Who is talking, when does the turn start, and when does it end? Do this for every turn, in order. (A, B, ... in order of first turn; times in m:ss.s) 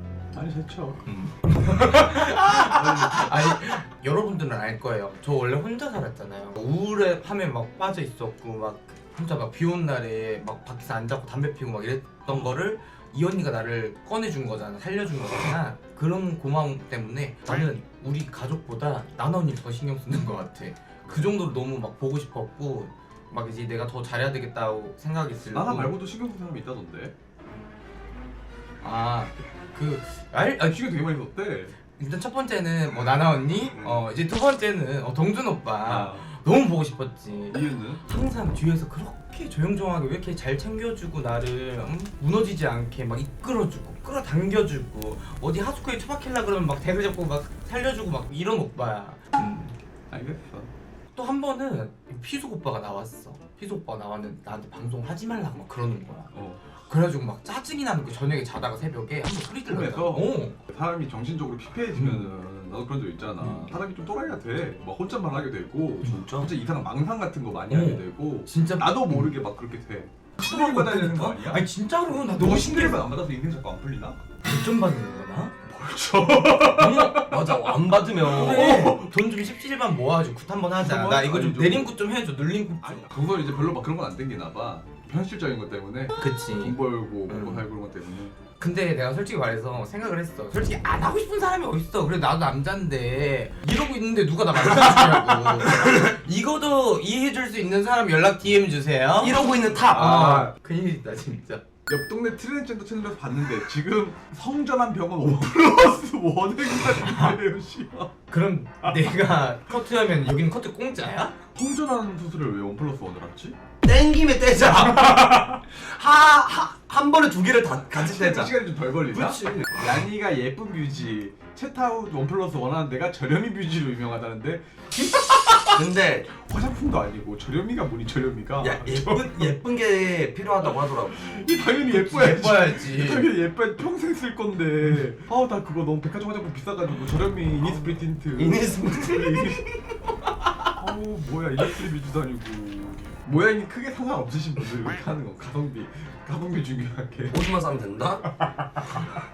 0:00.3-0:01.0 A
0:01.0-0:25.9 B
0:02.4-0:03.6 A
0:12.2-0:12.5 A
0:25.5-0:27.1 A
0:28.8-0:30.8 B
0:30.6-0:31.8 A
0:32.0-0:49.7 B
0:33.8-0:34.0 A
0:35.8-0:36.3 A
0:37.5-0:38.0 A
0:50.1-0:50.7 A
0:51.1-0:56.3 B
0:56.3-0:56.7 A
0:56.9-1:00.6 B
0:59.6-1:11.7 A
1:01.9-1:02.3 B
1:03.4-1:03.7 B
1:06.0-1:06.5 C
1:07.7-1:09.3 B
1:10.4-1:13.0 B
1:12.2-1:14.2 A
1:14.4-1:15.5 B
1:15.7-1:17.6 A
1:16.6-1:17.2 B
1:17.3-1:18.9 C
1:18.2-1:19.1 A
1:18.2-1:23.1 B
1:20.8-1:21.9 A
1:22.8-1:28.3 A
1:26.2-1:27.7 B
1:28.6-1:41.6 B
1:35.1-1:36.0 C
1:39.2-1:40.5 C
1:39.6-1:40.5 A
1:41.8-1:48.1 A
1:48.3-1:51.4 B
1:51.5-1:53.6 A
1:53.8-2:00.0 C
1:54.6-1:55.6 A
1:57.8-2:09.3 A
2:05.7-2:06.3 C
2:08.6-2:11.3 C
2:10.7-2:19.6 A
2:11.9-2:13.3 B
2:17.6-2:20.5 C
2:20.8-2:27.5 A
2:27.3-2:28.3 C
2:28.4-2:29.1 A